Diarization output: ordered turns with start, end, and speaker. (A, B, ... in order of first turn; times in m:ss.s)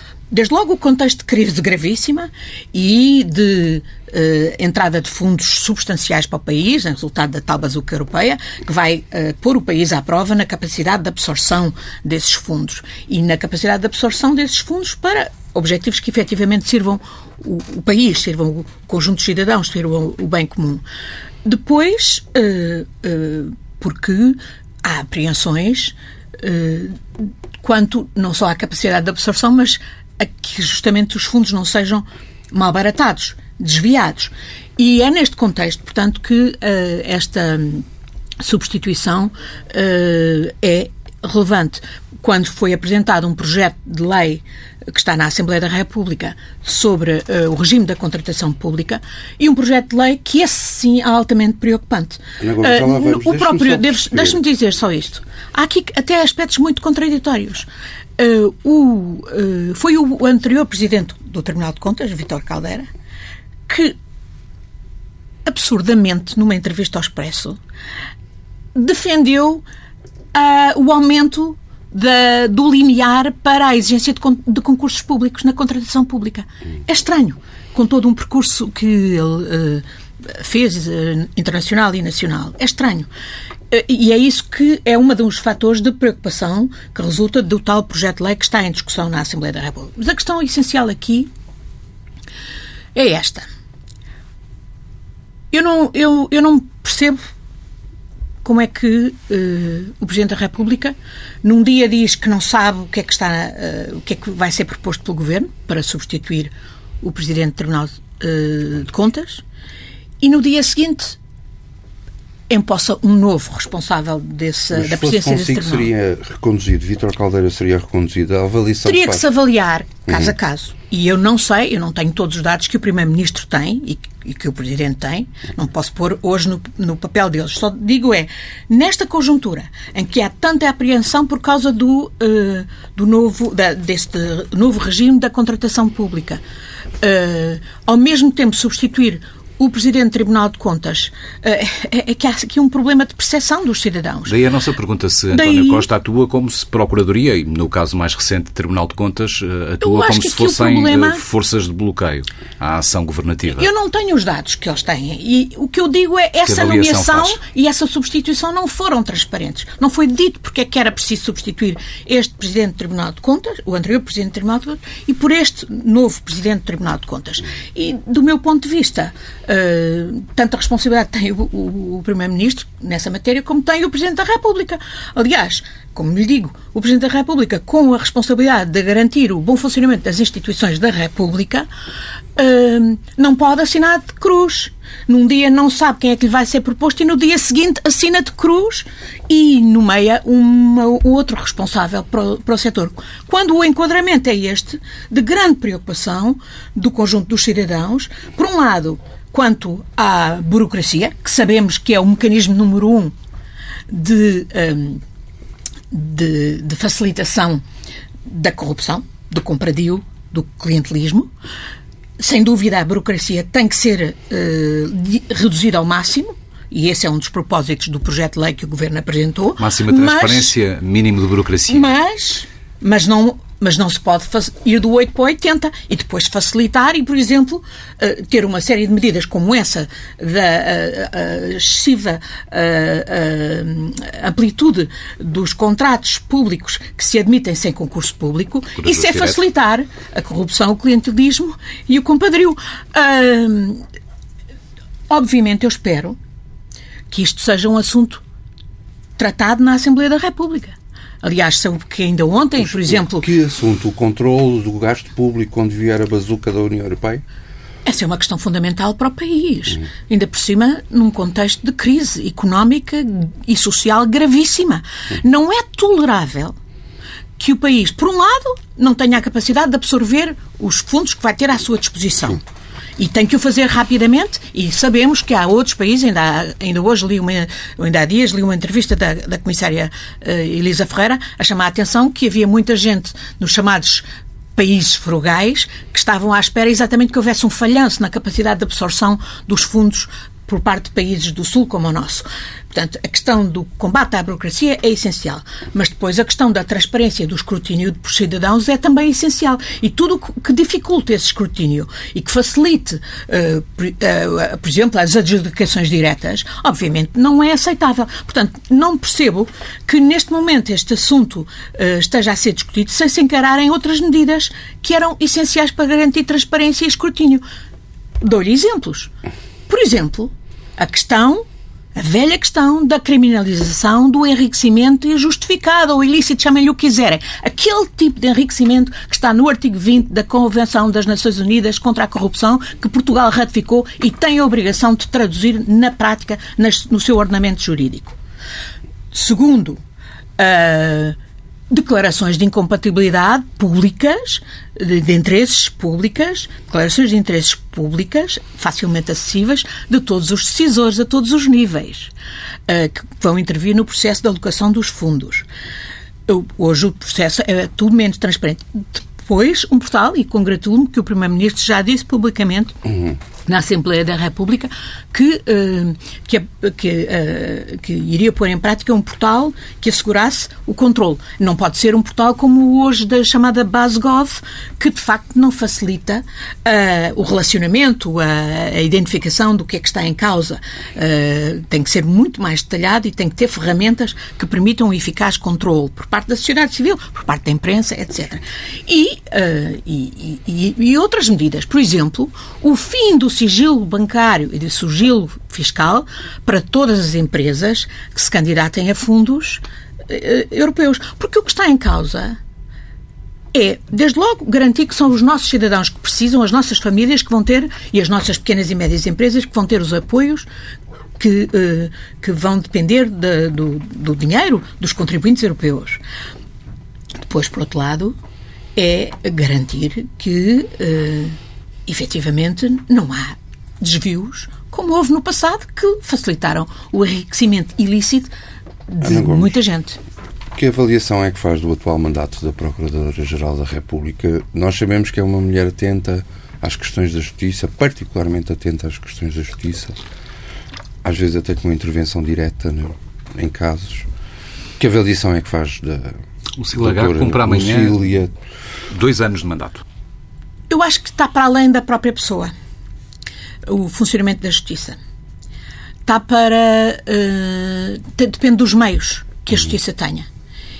0:00.3-0:20.8 A
0:21.4-0:27.0 A
0:27.6-0:37.8 A
0:38.4-1:02.9 A
0:52.4-0:54.4 B
1:03.7-1:04.0 A
1:05.4-1:07.6 A
1:08.7-1:09.6 A
1:10.3-1:23.1 A
1:23.7-1:31.3 A
1:32.9-1:33.4 A
1:35.5-1:37.2 A
1:38.4-1:49.4 A
1:50.2-1:51.2 A
1:52.5-1:55.9 A
1:54.7-1:59.2 B
1:58.8-2:16.4 A
2:17.0-2:24.4 A
2:24.2-2:33.7 C
2:25.3-2:25.8 A
2:29.8-2:31.2 A
2:33.5-3:01.7 A
2:36.5-2:37.4 C
3:02.4-3:23.1 A
3:23.9-3:25.0 A
3:25.9-3:27.6 A
3:28.2-3:31.3 A
3:32.2-3:40.5 A
3:39.6-3:41.9 C
3:41.7-4:03.8 A
3:58.8-3:59.4 C
4:05.1-4:06.2 A
4:07.1-4:08.2 A
4:09.2-4:13.3 A
4:12.6-4:17.2 B
4:17.8-4:26.5 A
4:27.4-4:32.4 A
4:33.0-5:17.4 A
5:18.2-5:19.1 A
5:19.7-5:21.4 A
5:22.0-5:38.2 A
5:39.1-5:39.8 A
5:40.4-5:41.2 A
5:41.7-5:52.1 A
5:52.7-5:55.4 A
5:56.3-6:02.8 A
6:03.4-6:42.4 A
6:43.5-6:50.5 A
6:51.2-6:56.0 A
6:57.2-6:58.1 A
6:58.8-7:08.3 A
7:08.9-7:10.0 A
7:09.0-7:09.6 B
7:10.5-7:20.0 B
7:21.0-7:24.1 B
7:24.8-7:26.2 B
7:26.6-7:28.0 C
7:26.8-7:28.3 B
7:28.9-7:29.8 C
7:30.7-7:32.5 A
7:33.6-7:35.0 A
7:36.0-7:40.3 A